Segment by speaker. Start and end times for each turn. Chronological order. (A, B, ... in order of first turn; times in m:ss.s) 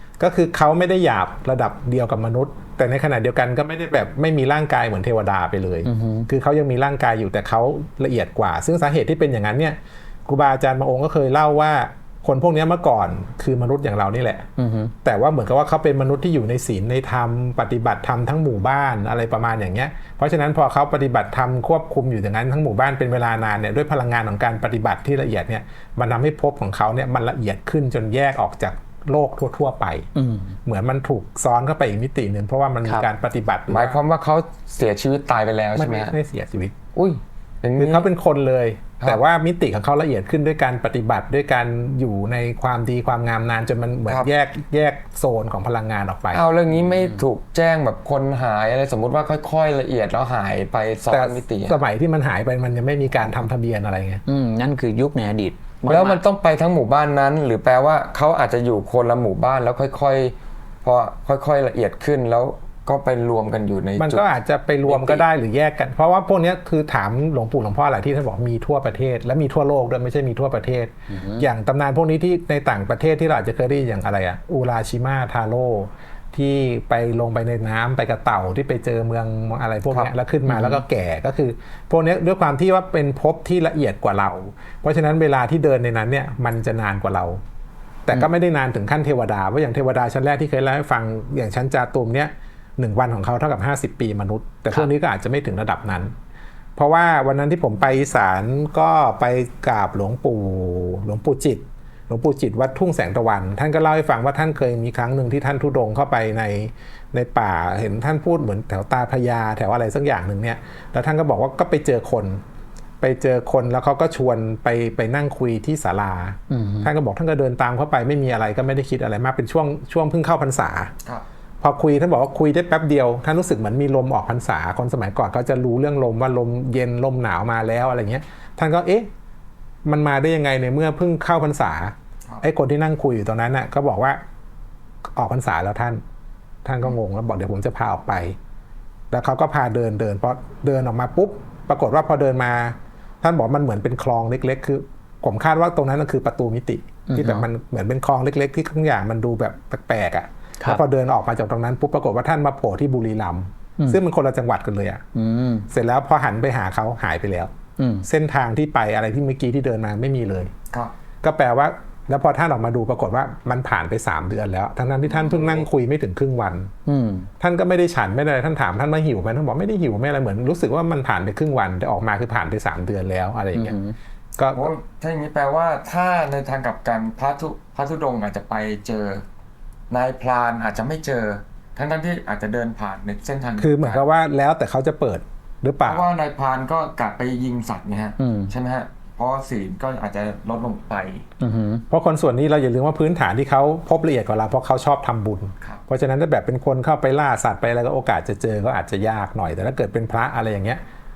0:00.2-0:14.5 A
0:05.8-0:06.3 B
0:14.6-0:14.9 B
0:15.0-0:30.1 A
0:30.2-0:30.6 B
0:30.6-0:34.0 A
0:33.7-0:36.2 C
0:35.8-0:36.8 A
0:36.9-0:38.1 C
0:37.8-0:46.4 A
0:46.3-0:51.8 C
0:51.1-0:54.2 A
0:54.3-0:56.2 B
0:55.9-1:04.3 C
1:04.0-1:27.4 A
1:04.9-1:05.3 C
1:11.1-1:11.5 B
1:20.5-1:20.8 B
1:28.1-1:36.1 A
1:36.8-1:52.4 A
1:53.0-2:00.9 A
1:56.5-1:56.9 B
2:01.6-2:09.1 A
2:09.9-2:14.2 A
2:15.2-2:16.0 A
2:16.6-2:18.4 A
2:19.1-2:35.0 A
2:27.1-2:27.5 B
2:35.1-2:35.7 B
2:35.7-2:37.5 A
2:37.8-2:38.1 B
2:38.0-2:40.5 A
2:41.2-2:46.7 A
2:45.0-2:45.7 C
2:46.9-2:47.3 B
2:47.4-2:53.8 A
2:53.5-2:54.0 B
2:54.4-2:54.7 A
2:54.6-2:59.2 C
2:59.9-3:04.0 C
3:03.6-3:06.1 A
3:05.8-3:11.2 C
3:08.2-3:08.5 B
3:11.4-3:11.8 B
3:11.9-3:20.8 A